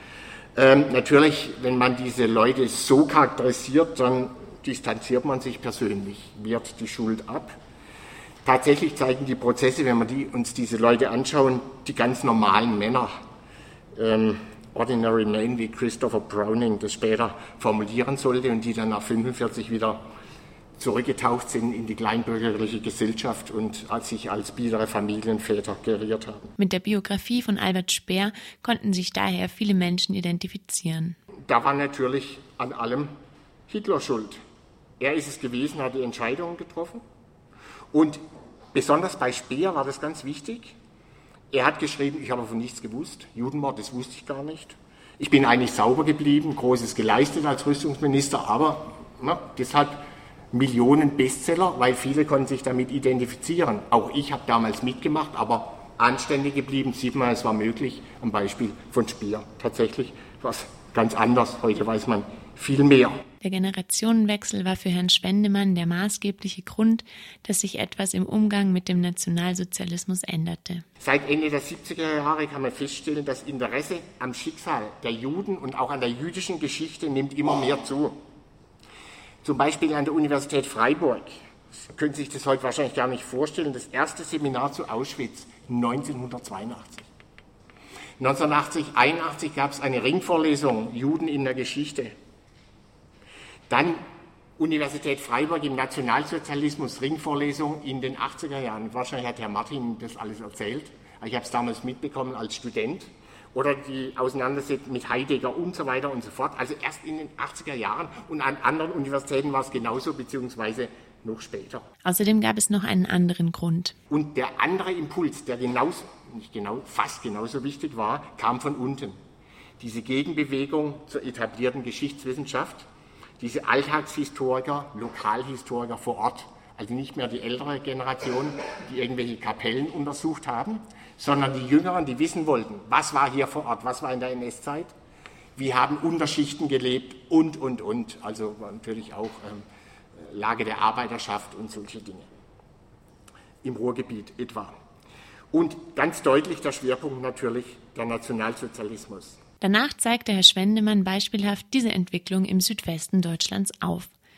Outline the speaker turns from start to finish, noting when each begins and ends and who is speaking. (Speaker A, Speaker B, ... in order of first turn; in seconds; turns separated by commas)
Speaker A: 0.6-7.6, Speaker A: 8.4-13.1, Speaker A: 13.9-20.0, Speaker A: 20.8-26.5, Speaker B: 26.6-31.2, Speaker A: 31.5-33.1, Speaker A: 33.7-34.4, Speaker A: 35.0-37.0, Speaker A: 37.9-38.2, Speaker A: 38.7-40.8, Speaker A: 41.5-50.0, Speaker A: 50.5-63.2, Speaker B: 63.4-70.8, Speaker A: 71.0-78.2, Speaker A: 79.4-87.1, Speaker A: 88.2-92.1, Speaker A: 93.7-94.0, Speaker A: 94.6-111.8, Speaker B: 112.0-114.0, Speaker A: 114.1-119.2, Speaker A: 119.8-122.9, Speaker A: 123.4-134.9, Speaker A: 135.6-139.7, Speaker A: 140.2-142.3, Speaker A: 143.6-144.7, Speaker A: 145.5-149.4, Speaker B: 149.6-154.1